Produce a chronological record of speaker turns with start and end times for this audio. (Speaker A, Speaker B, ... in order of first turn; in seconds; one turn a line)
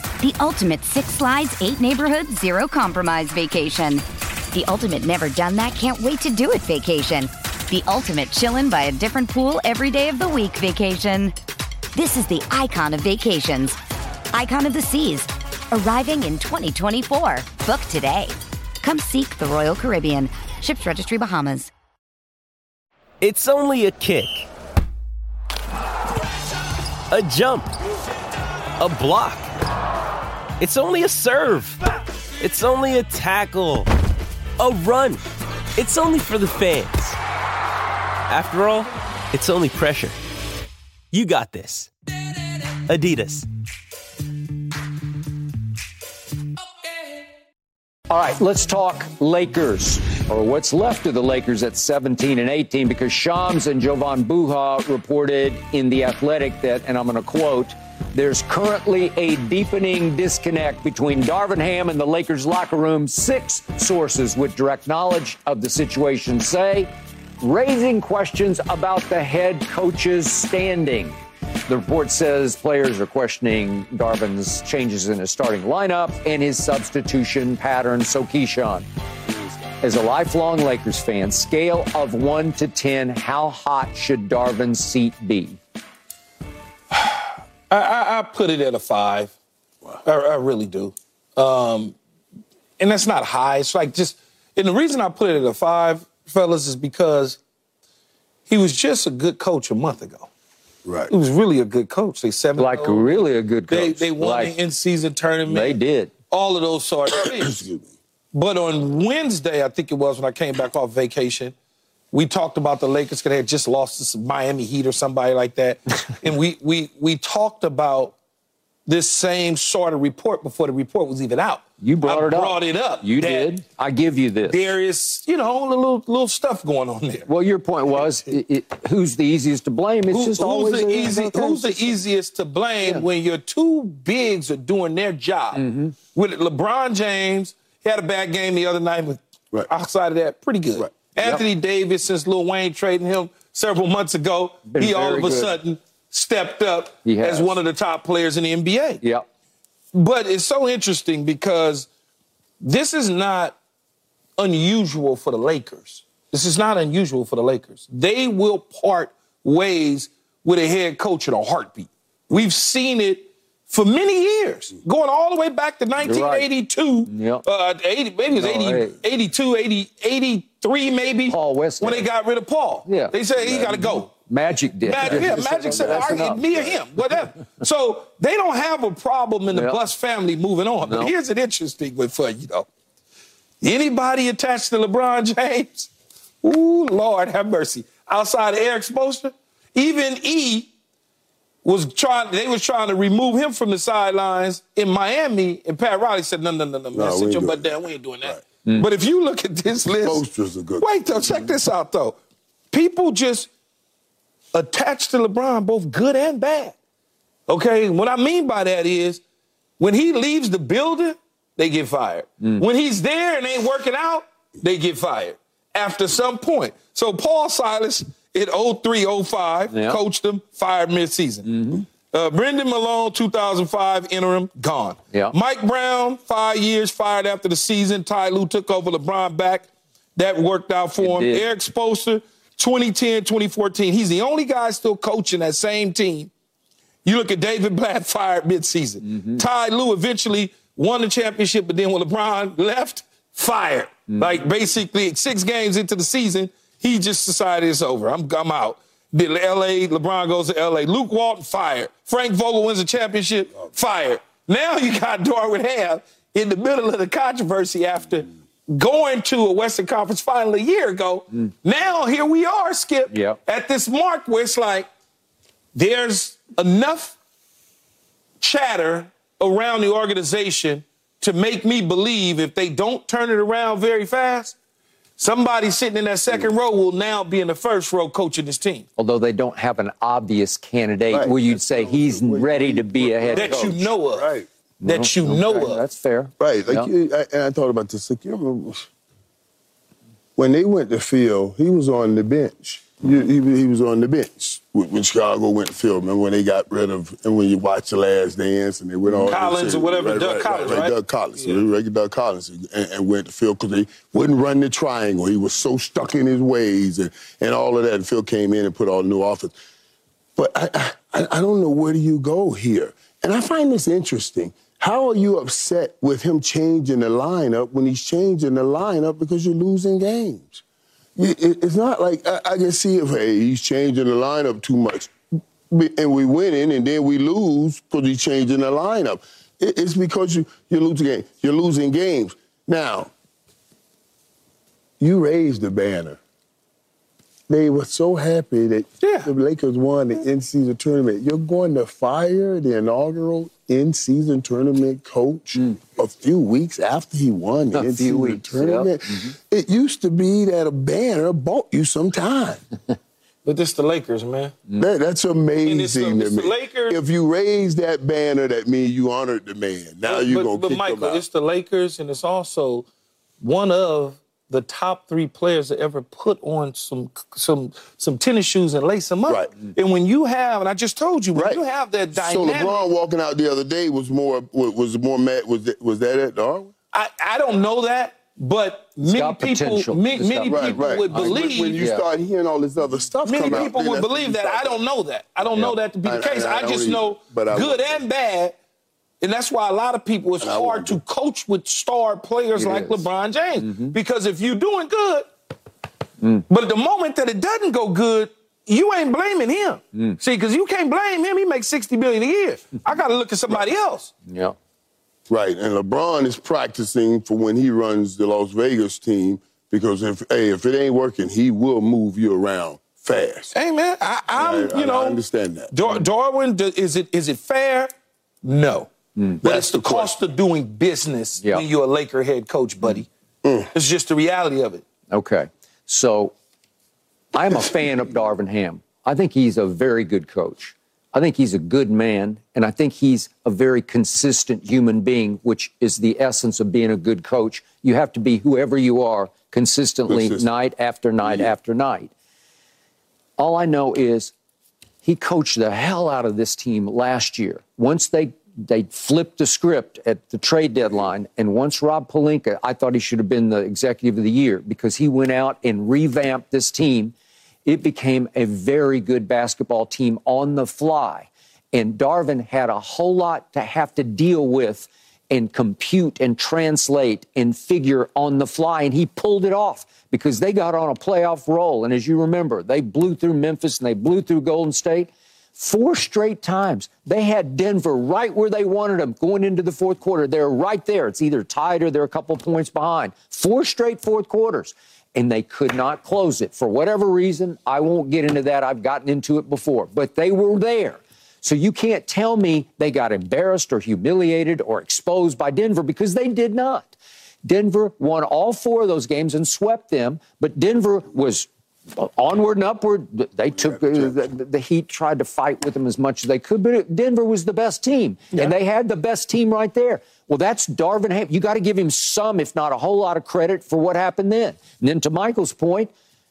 Speaker A: 0.2-11.3
Speaker A: 11.9-13.8
Speaker A: 14.3-21.7
Speaker B: 23.2-24.4
Speaker B: 27.1-27.7
Speaker B: 28.8-29.5
Speaker B: 30.6-31.8
Speaker B: 32.4-33.9
Speaker B: 34.6-35.2
Speaker B: 35.8-37.2
Speaker B: 38.3-40.2
Speaker B: 41.1-41.9
Speaker B: 42.9-43.5
Speaker C: 48.1-66.9
Speaker C: 67.4-71.2
Speaker C: 71.7-78.9
Speaker C: 79.8-85.6
Speaker D: 86.9-89.3
Speaker D: 90.0-92.0
Speaker D: 92.8-97.4
Speaker D: 98.5-100.3
Speaker E: 100.8-101.1
Speaker D: 101.1-105.8
Speaker C: 102.6-104.5
Speaker C: 105.5-106.1
Speaker D: 106.3-107.6
Speaker E: 107.1-107.9
Speaker D: 108.3-111.5
Speaker D: 112.1-118.2
Speaker D: 118.9-123.5
Speaker C: 121.8-124.6
Speaker D: 124.5-127.3
Speaker C: 127.3-131.7
Speaker D: 130.1-149.0
Speaker C: 135.6-135.9
Speaker C: 144.7-145.5
Speaker C: 147.1-147.6
Speaker D: 149.9-151.9
Speaker D: 152.6-153.6
Speaker D: 154.4-174.1
Speaker C: 166.0-166.5
Speaker C: 167.1-167.4
Speaker C: 168.3-169.0
Speaker C: 171.3-172.1
Speaker C: 172.9-176.4
Speaker D: 174.8-182.7
Speaker E: 175.0-176.9
Speaker C: 179.5-179.8
Speaker C: 180.8-181.1
Speaker D: 183.6-185.9
Speaker D: 186.4-190.7
Speaker D: 191.6-200.2
Speaker E: 196.9-198.4
Speaker E: 200.0-201.6
Speaker D: 200.8-202.2
Speaker D: 202.7-203.5
Speaker D: 204.5-206.8
Speaker D: 207.5-209.2
Speaker D: 209.8-236.3
Speaker C: 219.7-220.0
Speaker C: 221.4-221.8
Speaker C: 231.0-231.5
Speaker D: 237.1-264.9
Speaker C: 239.1-239.4
Speaker C: 263.1-263.4
Speaker D: 265.7-267.2
Speaker D: 268.4-274.6
Speaker D: 275.2-278.9
Speaker C: 279.0-283.7
Speaker E: 281.1-284.5
Speaker D: 283.4-284.3
Speaker C: 284.8-286.9
Speaker D: 284.9-285.8
Speaker E: 286.4-288.9
Speaker E: 290.4-309.6
Speaker D: 299.2-301.6
Speaker E: 310.4-320.6
Speaker E: 321.2-325.1
Speaker E: 325.7-333.1
Speaker E: 335.0-336.2
Speaker E: 337.5-352.6
Speaker D: 339.0-339.3
Speaker C: 347.7-349.3
Speaker D: 353.4-354.6
Speaker E: 354.8-361.2
Speaker D: 355.6-357.0
Speaker D: 360.1-362.9
Speaker D: 363.4-372.9
Speaker E: 371.4-371.6
Speaker E: 372.1-376.7
Speaker D: 376.9-381.8
Speaker C: 379.0-382.1
Speaker E: 380.5-384.8
Speaker D: 383.2-388.6
Speaker E: 385.4-388.0
Speaker D: 389.2-395.3
Speaker E: 390.4-391.0
Speaker C: 392.6-393.1
Speaker C: 393.6-393.9
Speaker D: 396.5-404.1
Speaker C: 404.3-404.6
Speaker E: 405.3-413.5
Speaker D: 413.5-415.2
Speaker E: 414.3-415.7
Speaker D: 415.7-417.9
Speaker D: 418.4-423.1
Speaker E: 419.4-420.2
Speaker E: 423.4-423.7
Speaker D: 423.7-424.8
Speaker C: 425.1-426.3
Speaker C: 427.3-442.1
Speaker E: 440.1-440.5
Speaker E: 441.2-441.5
Speaker C: 443.4-444.3
Speaker C: 445.0-457.1
Speaker C: 457.7-496.9
Speaker C: 497.4-515.9
Speaker E: 503.6-504.2